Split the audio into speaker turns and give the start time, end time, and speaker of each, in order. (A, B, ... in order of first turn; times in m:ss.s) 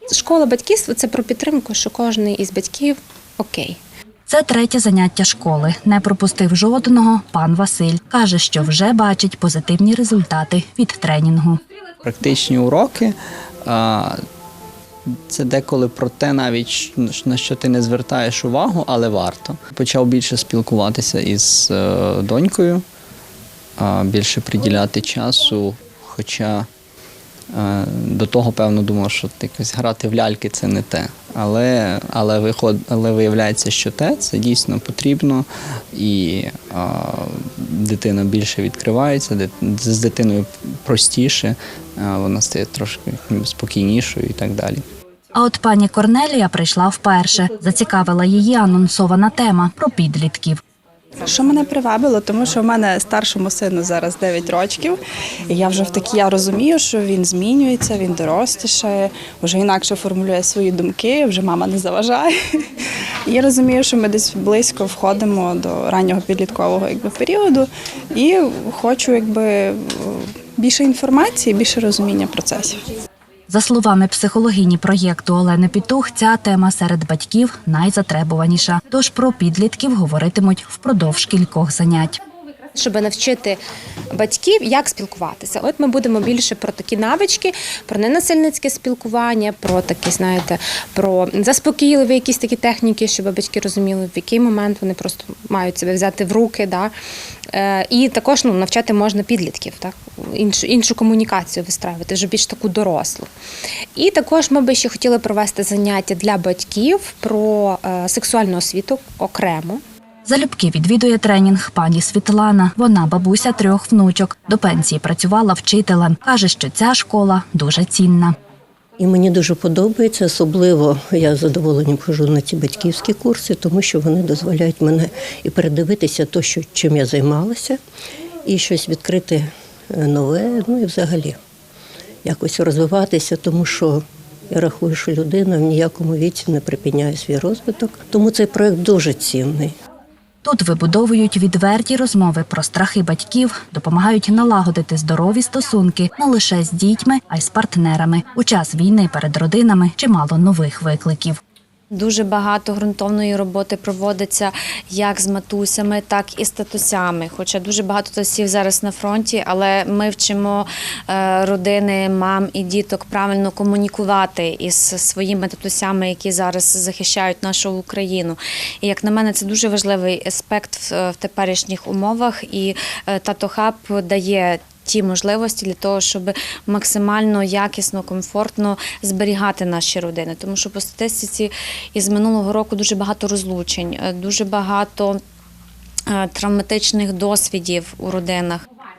0:00.1-0:03.8 A
0:04.3-0:11.6 B
0:12.0-0:14.2 C
0:15.3-0:22.8 C
0:23.8-0:26.7 C
0:27.5-0:44.8 C
0:45.3-0:50.6 B
0:51.2-1:02.3 D
1:03.2-1:12.8 D
1:13.5-1:22.2 B
1:22.7-1:23.6 A
1:24.1-1:36.9 A
1:37.5-1:43.3 A
1:44.0-1:49.8 A
1:50.2-1:58.3 B
1:59.0-2:07.8 E
2:08.5-2:11.4 E
2:12.2-2:19.8 E
2:20.4-2:31.4 B
2:31.9-3:05.2 F
3:06.1-3:08.6 F